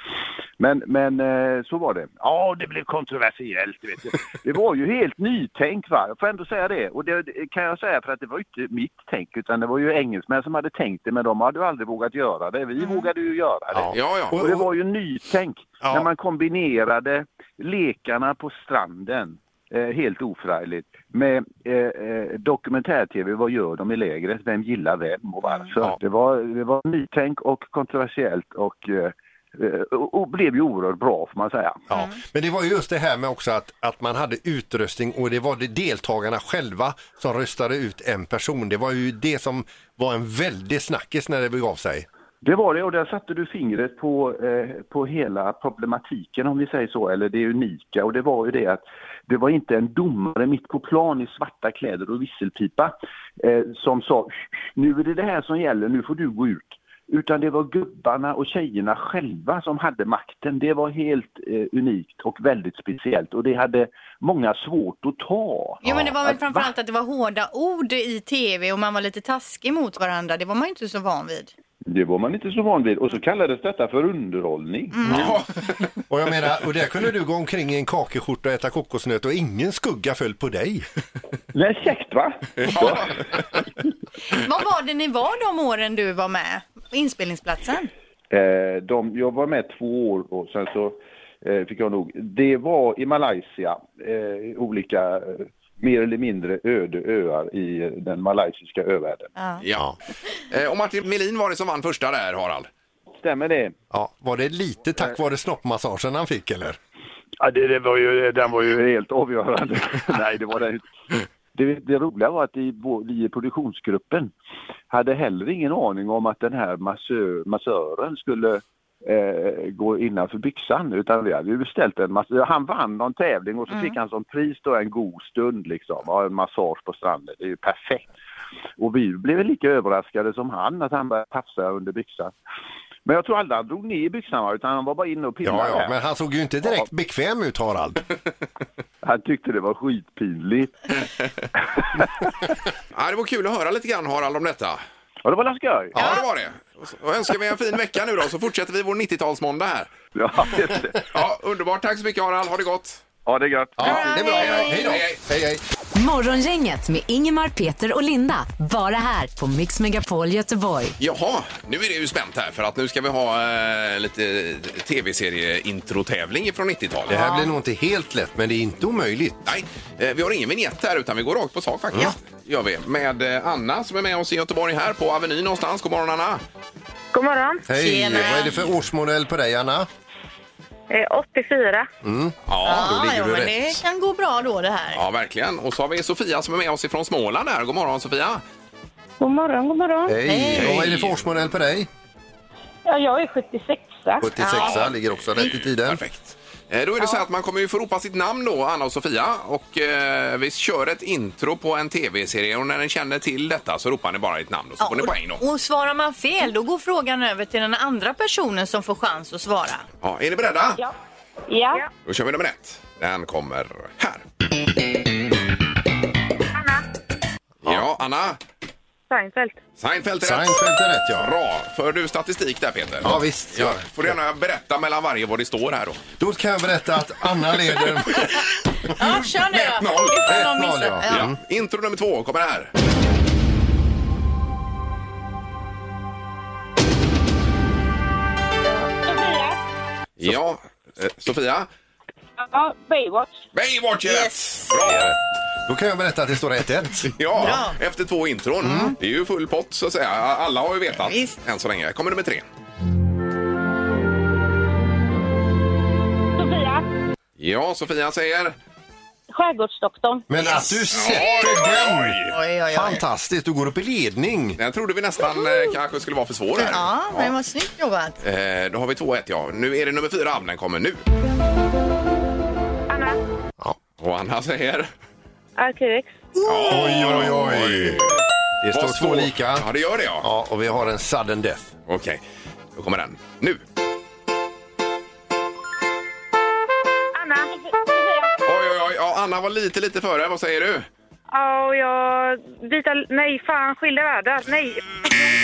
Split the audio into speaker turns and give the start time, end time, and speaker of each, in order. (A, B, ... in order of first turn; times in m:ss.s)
0:00.6-0:31.9 A
0:12.8-0:13.1 B
0:13.7-0:14.6 C
0:13.9-0:14.4 D
0:31.9-0:42.0 C
0:42.4-1:06.7 A
1:05.8-1:11.5 B
1:11.9-1:15.2 A
1:15.0-1:15.2 B
1:15.1-1:15.7 D
1:16.1-1:20.8 C
1:21.5-1:23.1 A
1:22.6-1:23.0 D
1:24.4-1:27.9 B
1:28.3-1:39.3 A
1:39.6-1:39.9 D
1:40.5-1:42.7 D
1:43.2-1:43.7 A
1:43.9-1:46.8 C
1:47.4-1:50.9 A
1:51.5-1:54.3 A
1:54.9-2:08.1 A
2:08.8-2:12.3 A
2:13.0-2:16.0 A
2:15.4-2:18.0 C
2:16.6-2:16.9 A
2:19.0-2:20.8 A
2:22.9-2:24.8 D
2:25.2-2:26.0 A
2:25.9-2:29.9 D
2:30.1-2:31.0 A
2:31.1-2:33.0 D
2:33.2-2:34.0 A
2:33.8-2:35.6 C
2:33.8-2:35.0 B
2:34.2-2:35.2 D
2:35.9-2:41.0 E
2:41.0-2:47.1 D
2:47.1-2:49.4 C
2:47.1-2:47.5 B
2:49.4-2:56.4 D
2:57.1-2:57.6 F
2:57.7-2:59.9 C
2:57.7-2:58.6 B
3:00.9-3:01.9 F
3:02.0-3:03.5 C
3:02.5-3:03.5 D
3:02.6-3:05.0 B
3:04.9-3:08.4 D
3:09.2-3:10.2 F
3:10.0-3:11.9 C
3:10.2-3:10.9 B
3:10.6-3:11.2 D
3:12.9-3:14.2 F
3:14.2-3:16.0 C
3:14.3-3:14.8 B
3:14.5-3:25.4 D
3:24.8-3:29.8 B
3:30.0-3:30.8 D
3:31.5-3:31.9 F
3:32.0-3:34.2 D
3:36.5-3:36.8 F
3:37.6-3:38.4 D
3:39.1-3:39.6 F
3:39.8-3:46.0 D
3:40.2-3:41.3 C
3:43.0-3:44.1 C
3:46.2-3:48.2 C
3:48.9-3:51.2 B
3:49.5-3:50.4 D
3:50.2-3:51.4 C
3:51.1-3:52.7 D
3:59.0-3:59.6 F
4:00.2-4:01.7 D
4:02.4-4:03.4 F
4:03.5-4:05.1 D
4:04.0-4:04.7 B
4:04.7-4:05.1 C
4:05.7-4:07.1 C
4:07.1-4:12.4 D
4:07.4-4:07.8 B
4:08.6-4:08.9 B
4:11.0-4:11.4 B
4:16.4-4:16.9 F
4:17.4-4:18.6 D
4:19.3-4:20.2 F
4:20.3-4:24.6 C
4:20.9-4:22.4 D
4:22.3-4:23.0 B
4:24.6-4:27.3 D
4:26.6-4:28.2 B
4:28.2-4:31.0 D
4:32.9-4:33.2 F
4:34.0-4:34.9 D
4:35.6-4:36.1 F
4:36.4-4:38.2 D
4:36.6-4:38.0 C
4:38.6-4:39.7 C
4:38.7-4:40.3 D
4:40.2-4:41.7 C
4:41.9-4:42.2 D
4:42.7-4:43.6 D
4:47.1-4:48.4 F
4:48.4-4:50.9 D
4:51.3-4:55.3 F